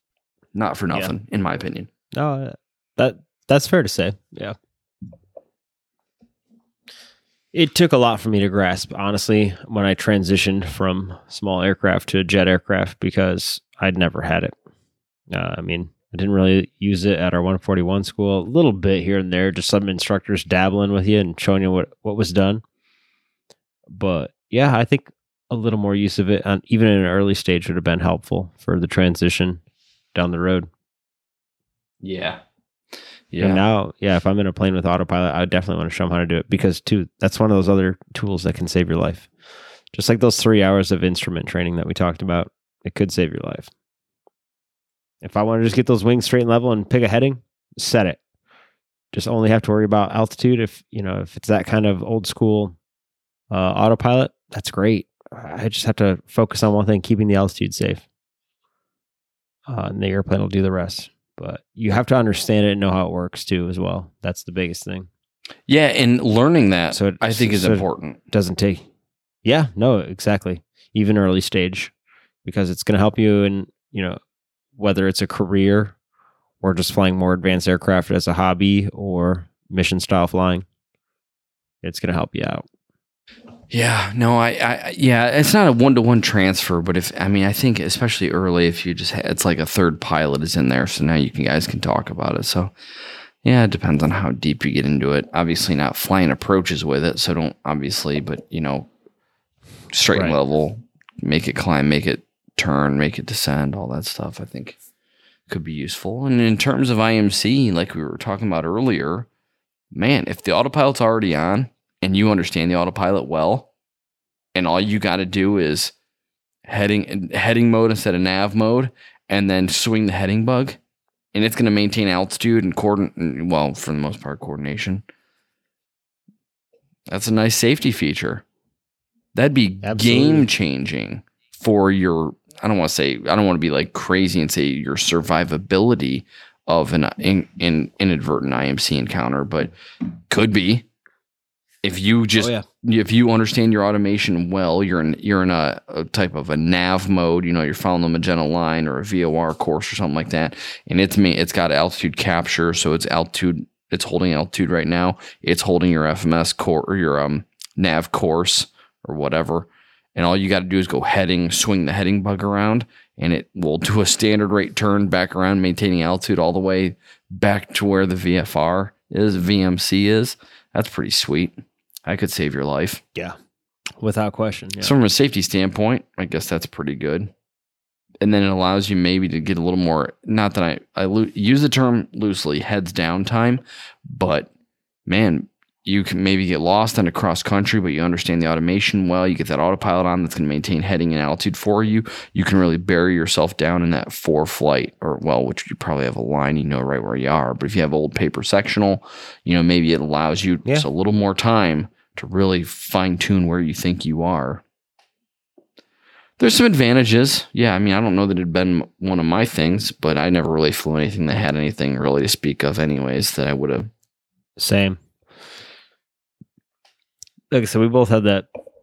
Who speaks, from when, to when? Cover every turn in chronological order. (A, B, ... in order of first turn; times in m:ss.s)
0:00.6-0:01.9 A
0:02.1-0:04.6 B
0:07.5-0:14.5 B
0:15.3-0:22.6 B
0:23.9-0:29.6 B
0:30.1-0:30.7 B
0:32.0-0:32.4 A
0:33.3-0:33.6 A
0:33.4-0:39.3 B
0:39.9-0:43.7 B
0:45.2-0:48.2 B
0:49.1-0:52.8 B
0:53.5-0:58.0 B
0:59.7-1:05.1 B
1:05.7-1:08.2 A
1:06.9-1:08.9 B
1:09.4-1:11.9 B
1:12.4-1:14.2 B
1:14.8-1:16.0 B
1:16.6-1:20.6 B
1:21.8-1:22.6 B
1:23.7-1:32.7 A
1:33.4-1:38.9 A
1:39.9-1:44.8 A
1:40.1-1:40.4 B
1:45.5-1:49.3 A
1:49.9-1:53.7 A
1:54.5-1:55.9 A
1:56.7-2:00.8 A
2:01.3-2:05.0 A
2:07.1-2:08.4 A
2:09.4-2:19.7 A
2:09.8-2:10.5 B
2:20.3-2:20.8 A
2:21.8-2:53.0 A
2:22.4-2:22.6 B
2:54.0-2:55.0 B
2:54.8-2:57.3 A
2:58.2-3:04.5 A
3:05.1-3:24.6 A
3:26.4-3:33.9 A
3:34.6-3:35.0 B
3:37.5-3:38.5 B